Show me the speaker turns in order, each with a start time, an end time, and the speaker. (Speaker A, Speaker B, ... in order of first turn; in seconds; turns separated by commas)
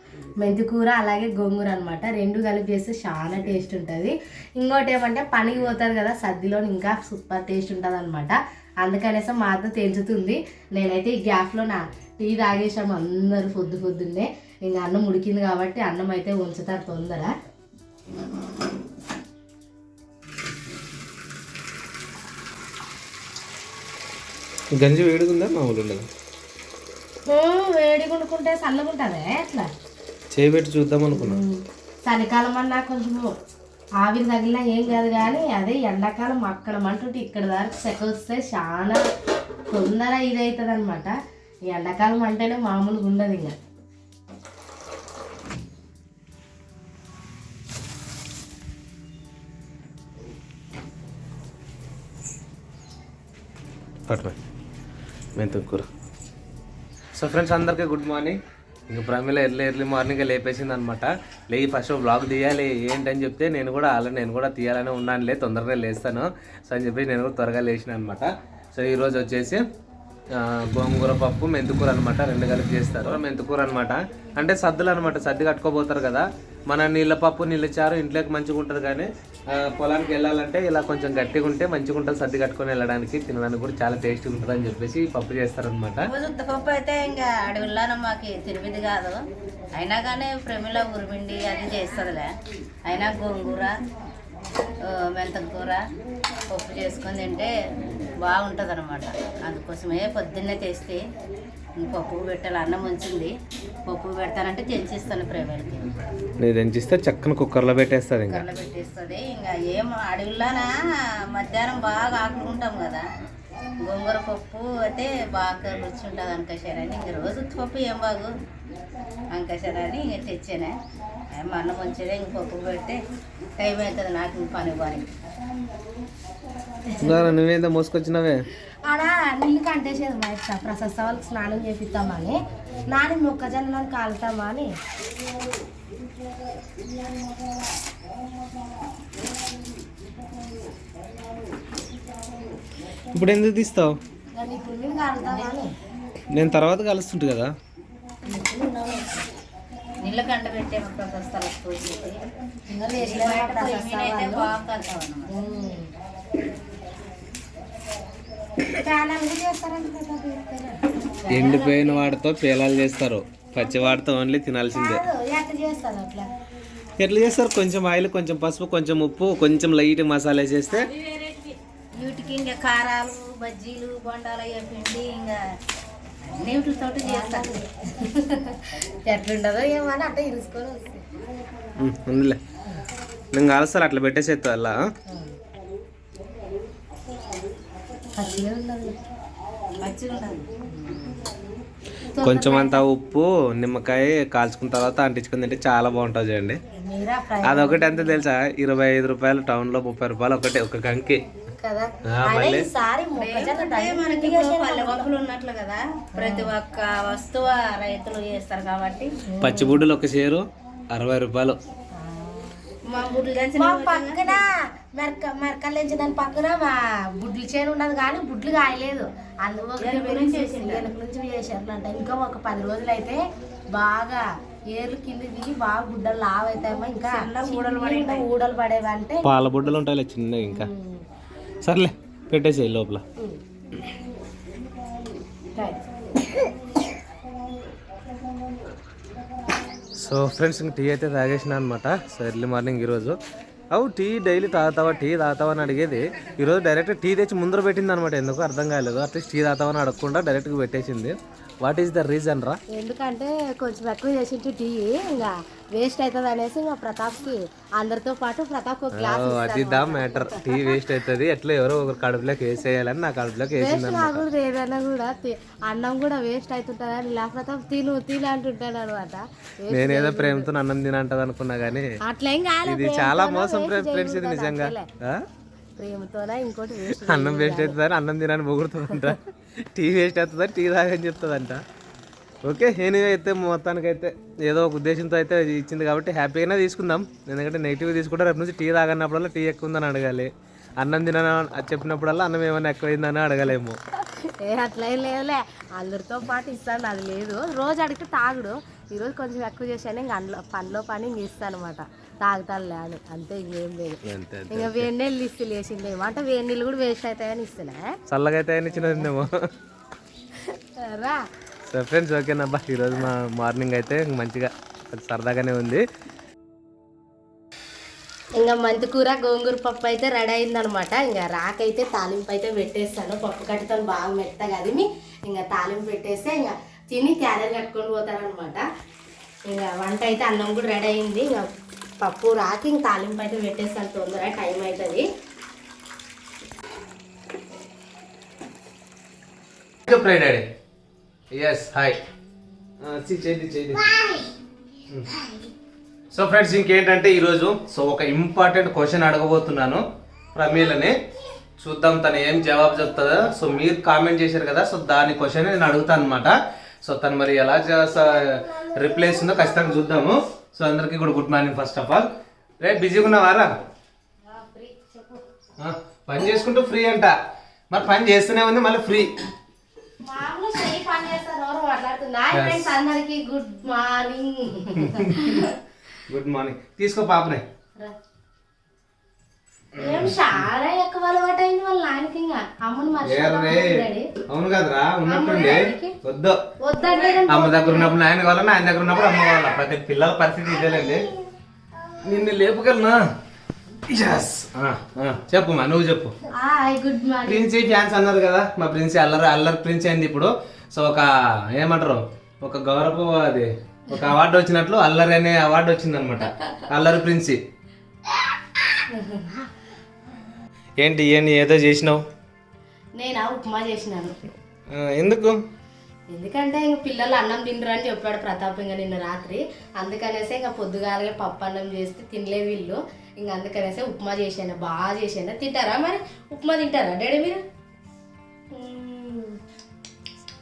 Speaker A: 0.4-17.3, Speaker B: 24.7-26.1, Speaker A: 27.3-29.7, Speaker B: 30.3-31.4, Speaker A: 31.1-33.4, Speaker A: 34.0-39.0, Speaker A: 39.7-41.1, Speaker A: 41.7-43.5, Speaker B: 54.1-54.4, Speaker B: 55.4-55.9, Speaker B: 57.1-69.6, Speaker B: 70.3-86.1, Speaker C: 86.0-92.3, Speaker C: 92.8-93.8, Speaker C: 94.8-95.8, Speaker C: 96.5-97.5, Speaker C: 98.2-101.0, Speaker C: 101.8-103.3, Speaker C: 103.8-106.0, Speaker B: 106.4-108.4, Speaker C: 108.3-110.8, Speaker C: 111.3-113.0, Speaker C: 113.8-118.3, Speaker C: 119.3-120.8, Speaker C: 121.3-123.0, Speaker C: 123.6-125.1, Speaker A: 126.8-127.3, Speaker B: 127.0-128.4, Speaker A: 128.8-134.7, Speaker B: 143.1-143.9, Speaker A: 144.3-145.7, Speaker B: 146.3-147.5, Speaker A: 148.2-149.2, Speaker C: 150.0-152.2, Speaker A: 152.7-154.5, Speaker C: 153.0-155.3, Speaker A: 155.3-155.9, Speaker A: 158.7-162.1, Speaker B: 161.3-165.0, Speaker A: 163.6-164.0, Speaker A: 164.7-166.3, Speaker B: 167.0-170.9, Speaker C: 171.1-175.4, Speaker C: 176.2-177.6, Speaker A: 177.0-181.0, Speaker B: 181.8-182.4, Speaker B: 183.3-184.9, Speaker A: 188.2-189.0, Speaker C: 189.8-191.1, Speaker A: 192.1-192.8, Speaker B: 192.2-196.6, Speaker A: 196.7-198.2, Speaker B: 197.4-201.2, Speaker A: 201.6-205.1, Speaker B: 202.1-202.7, Speaker C: 203.2-209.1, Speaker A: 206.1-206.5, Speaker A: 209.3-209.8, Speaker B: 209.4-211.6, Speaker A: 211.9-212.8, Speaker C: 212.9-214.4, Speaker A: 213.6-223.2, Speaker C: 219.8-220.9, Speaker A: 223.7-229.2, Speaker C: 227.0-228.2, Speaker B: 229.2-230.7, Speaker A: 230.5-231.0, Speaker B: 231.6-233.0, Speaker A: 235.6-235.8, Speaker B: 240.0-243.2, Speaker B: 243.7-252.6, Speaker A: 252.7-260.8, Speaker B: 258.9-264.2, Speaker A: 263.6-270.5, Speaker B: 269.7-272.0, Speaker A: 272.0-274.9, Speaker B: 272.6-275.2, Speaker A: 275.8-277.8, Speaker B: 276.9-281.6, Speaker A: 278.9-279.1, Speaker B: 282.4-293.8, Speaker A: 294.1-308.0, Speaker B: 304.0-304.9, Speaker B: 308.1-309.4, Speaker A: 310.5-311.2, Speaker B: 311.7-315.8, Speaker A: 318.4-328.6, Speaker A: 329.5-331.5, Speaker A: 332.0-335.1, Speaker B: 339.9-340.4, Speaker B: 341.3-342.0, Speaker B: 342.8-343.9, Speaker B: 346.1-349.8, Speaker B: 350.4-350.9, Speaker B: 351.6-362.1, Speaker B: 362.6-363.5, Speaker A: 364.2-365.2, Speaker B: 365.6-367.2, Speaker B: 367.7-369.1, Speaker A: 370.0-375.6, Speaker B: 372.3-372.7, Speaker B: 374.8-375.4, Speaker B: 376.1-377.4, Speaker A: 379.8-384.1, Speaker B: 379.8-380.3, Speaker B: 383.1-386.4, Speaker A: 385.1-386.0, Speaker A: 386.6-387.9, Speaker B: 387.3-391.1, Speaker B: 392.0-393.0, Speaker B: 393.9-396.1, Speaker A: 396.3-397.5, Speaker B: 397.2-407.4, Speaker A: 408.9-409.5, Speaker B: 410.8-412.0, Speaker A: 413.0-414.2, Speaker B: 414.7-415.4, Speaker A: 416.1-427.4, Speaker A: 428.5-429.4